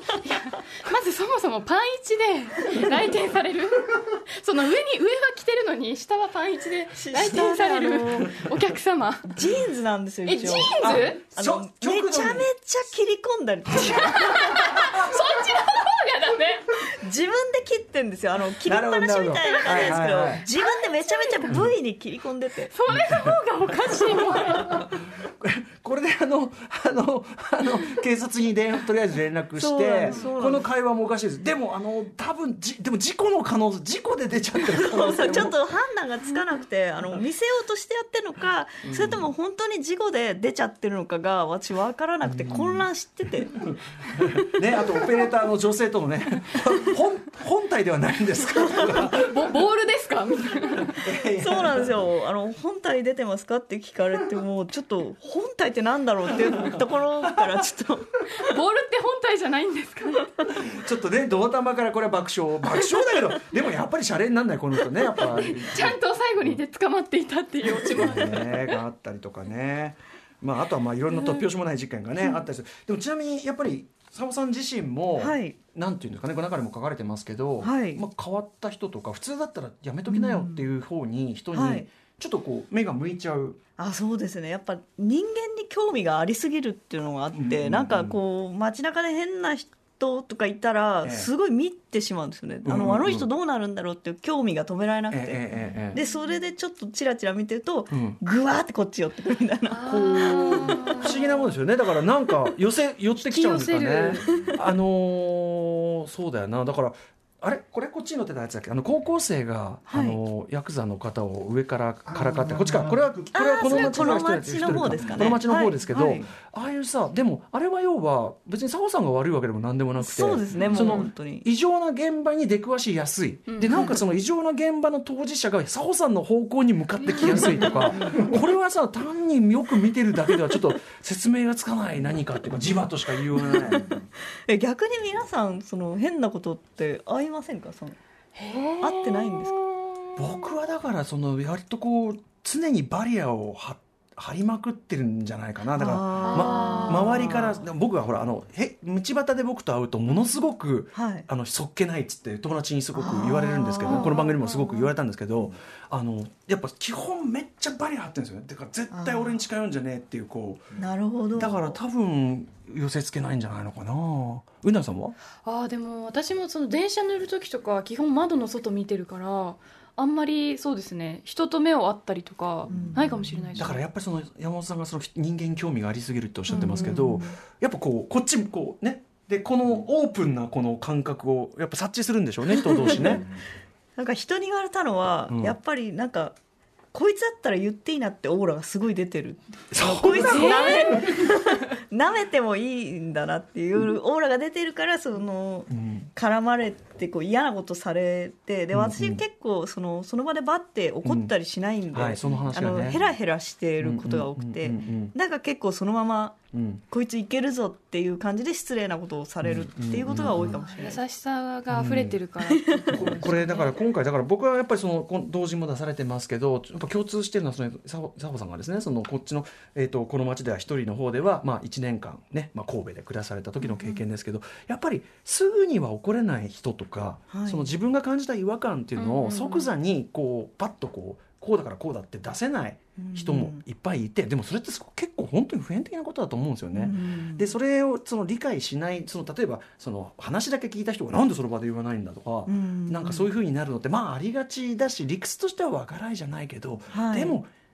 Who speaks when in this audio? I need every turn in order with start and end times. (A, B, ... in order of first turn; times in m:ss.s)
0:00.2-0:09.4 A
0:07.0-0:08.5 B
0:09.3-0:14.7 B
0:10.2-0:11.2 A
0:10.8-0:12.5 C
0:13.8-0:16.7 A
0:16.9-0:22.7 B
0:18.6-0:20.4 C
0:20.6-0:21.6 A
0:22.7-0:24.9 A
0:22.9-0:23.4 C
0:24.7-0:35.6 C
0:29.6-0:30.7 B
0:34.7-0:43.6 B
0:38.8-0:39.3 C
0:42.2-0:42.8 C
0:43.4-0:49.4 C
0:48.9-0:51.0 A
0:50.9-0:52.0 C
0:51.4-0:58.2 B
0:56.5-0:56.8 C
0:58.3-1:00.5 A
1:00.5-1:06.6 C
1:05.2-1:08.8 A
1:07.9-1:23.6 C
1:15.2-1:15.6 B
1:17.6-1:18.0 B
1:20.1-1:20.6 B
1:21.5-1:21.9 B
1:23.8-1:41.0 B
1:27.3-1:28.2 C
1:31.0-1:31.3 C
1:32.6-1:33.3 C
1:35.1-1:36.0 C
1:37.9-1:38.2 C
1:39.7-1:41.4 A
1:40.1-2:14.0 C
1:43.2-1:44.2 A
1:44.3-1:44.6 B
1:49.9-1:50.2 B
1:53.3-1:56.2 B
1:53.6-1:54.1 A
2:00.0-2:01.4 B
2:00.5-2:01.0 A
2:03.5-2:04.0 A
2:07.1-2:08.2 A
2:13.6-2:18.0 B
2:18.3-2:20.2 A
2:18.8-2:19.6 B
2:20.2-2:40.8 C
2:25.8-2:27.3 B
2:26.2-2:27.5 A
2:30.9-2:31.3 B
2:32.9-2:34.3 B
2:33.8-2:34.9 A
2:38.9-2:39.4 B
2:40.8-2:41.8 B
2:41.3-2:45.2 C
2:45.4-2:53.8 A
2:52.7-2:53.5 B
2:53.6-3:03.3 C
2:56.5-2:57.3 B
2:56.7-2:57.0 A
3:02.6-3:03.2 B
3:04.0-3:06.4 B
3:05.3-3:05.6 C
3:06.9-3:31.0 B
3:09.7-3:11.2 C
3:10.2-3:11.4 A
3:15.7-3:16.1 C
3:18.7-3:19.2 C
3:21.0-3:21.3 C
3:21.9-3:23.0 C
3:23.8-3:25.1 C
3:26.5-3:26.8 C
3:29.4-3:30.5 C
3:30.3-3:33.8 A
3:31.7-3:32.2 C
3:32.4-3:33.0 B
3:32.9-4:07.5 C
3:47.3-3:47.7 B
3:49.0-3:49.7 A
3:53.0-3:53.6 B
3:56.7-3:57.5 B
4:02.5-4:03.3 B
4:06.9-4:07.4 B